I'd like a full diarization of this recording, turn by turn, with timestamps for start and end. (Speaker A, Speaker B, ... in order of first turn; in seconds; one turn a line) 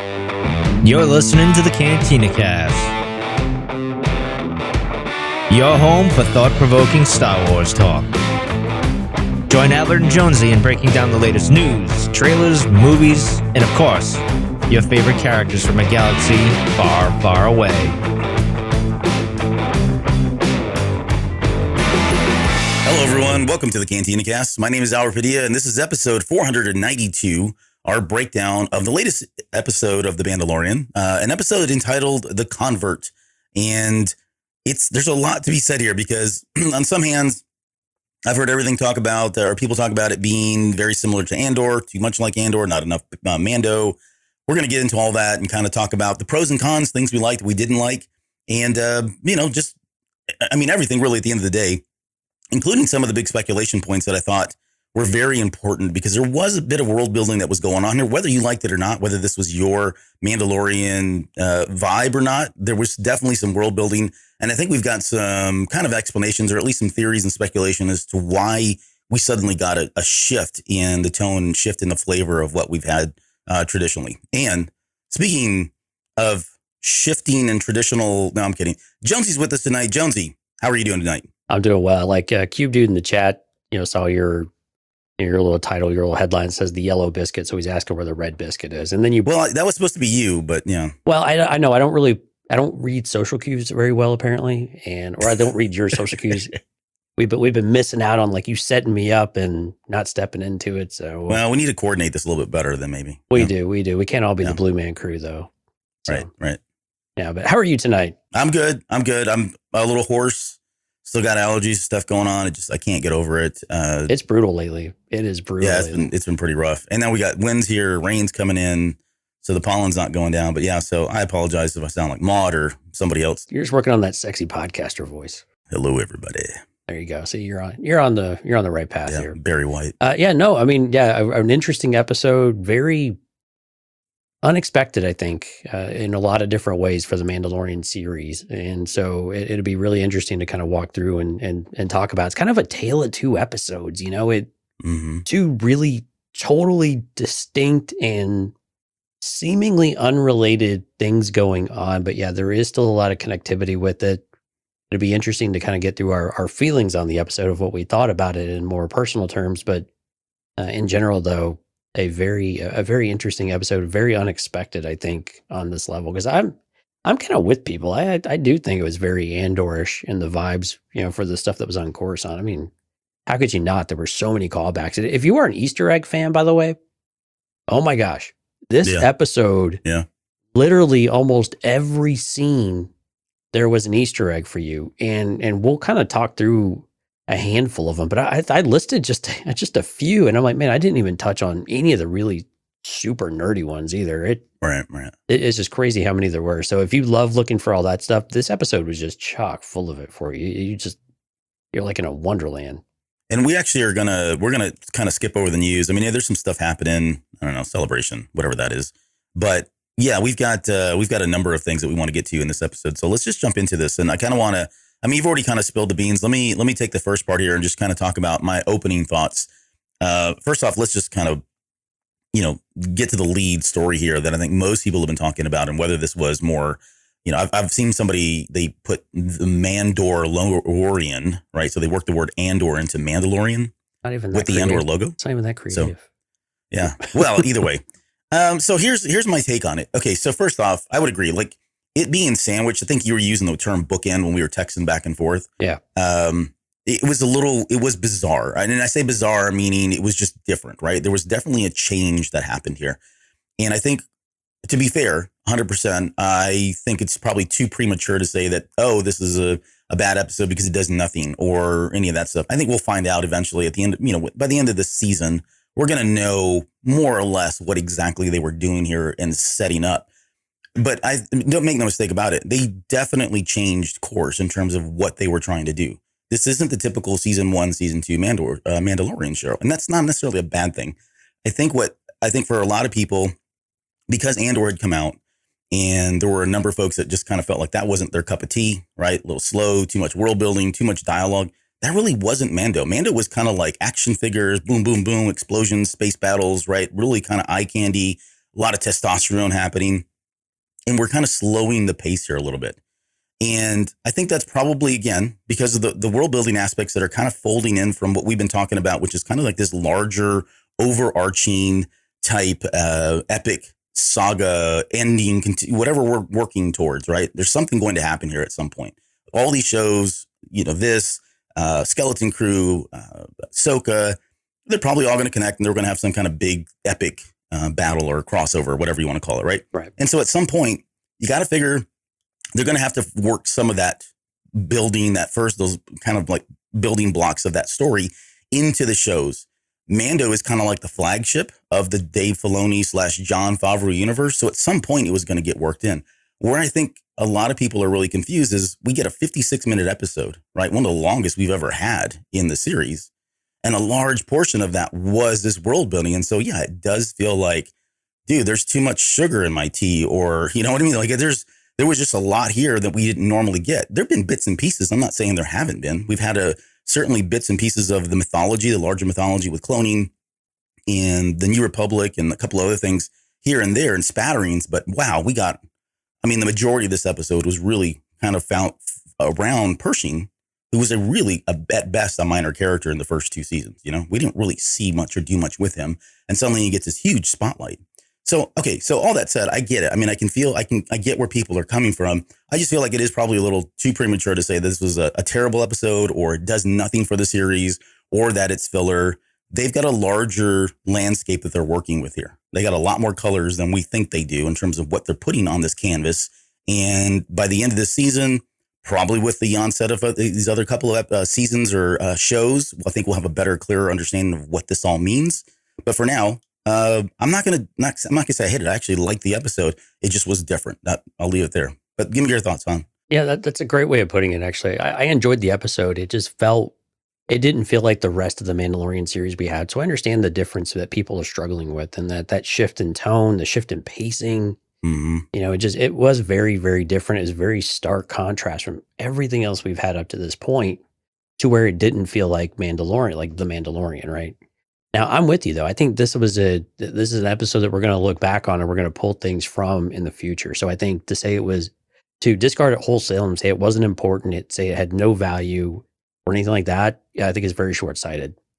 Speaker A: 0.8-2.9
Speaker A: 5.5-8.1
Speaker A: 9.5-18.0
Speaker B: 22.8-37.4
Speaker B: 38.3-49.7
Speaker B: 50.5-51.8
Speaker B: 52.5-81.3
Speaker C: 81.5-84.5
Speaker C: 85.2-89.3
Speaker B: 89.2-91.0
Speaker C: 91.1-96.6
Speaker C: 97.2-101.4
Speaker B: 101.3-103.5
Speaker C: 103.3-105.5
Speaker C: 106.0-106.3
Speaker B: 106.1-106.6
Speaker C: 107.2-108.2
Speaker B: 108.3-114.1
Speaker C: 114.1-116.1
Speaker B: 115.6-123.5
Speaker C: 123.5-125.4
Speaker B: 125.7-126.6
Speaker C: 126.9-129.3
Speaker B: 129.1-129.9
Speaker C: 130.0-133.2
Speaker C: 134.4-144.5
Speaker B: 144.8-145.2
Speaker C: 145.2-148.5
Speaker C: 149.2-154.2
Speaker C: 154.9-159.9
Speaker C: 160.6-172.7
Speaker C: 173.3-176.8
Speaker C: 177.7-179.8
Speaker C: 180.5-182.9
Speaker C: 183.5-194.4
Speaker B: 194.6-195.1
Speaker C: 195.3-201.0
Speaker C: 201.7-202.8
Speaker B: 203.3-219.5
Speaker B: 220.0-221.4
Speaker B: 222.3-233.7
Speaker C: 234.0-236.0
Speaker B: 234.3-235.2
Speaker B: 236.7-253.0
Speaker C: 236.8-237.5
Speaker B: 253.6-254.1
Speaker B: 254.6-270.1
Speaker B: 270.8-283.3
Speaker B: 284.1-285.2
Speaker B: 285.7-300.1
Speaker B: 300.9-302.8
Speaker B: 303.4-331.8
Speaker B: 332.6-353.1
Speaker B: 353.6-357.7
Speaker B: 358.3-370.1
Speaker B: 370.9-375.6
Speaker B: 376.2-422.9
Speaker C: 423.1-426.7
Speaker C: 427.3-434.6
Speaker B: 434.8-435.2
Speaker C: 435.3-440.8
Speaker C: 441.4-444.4
Speaker C: 444.9-458.4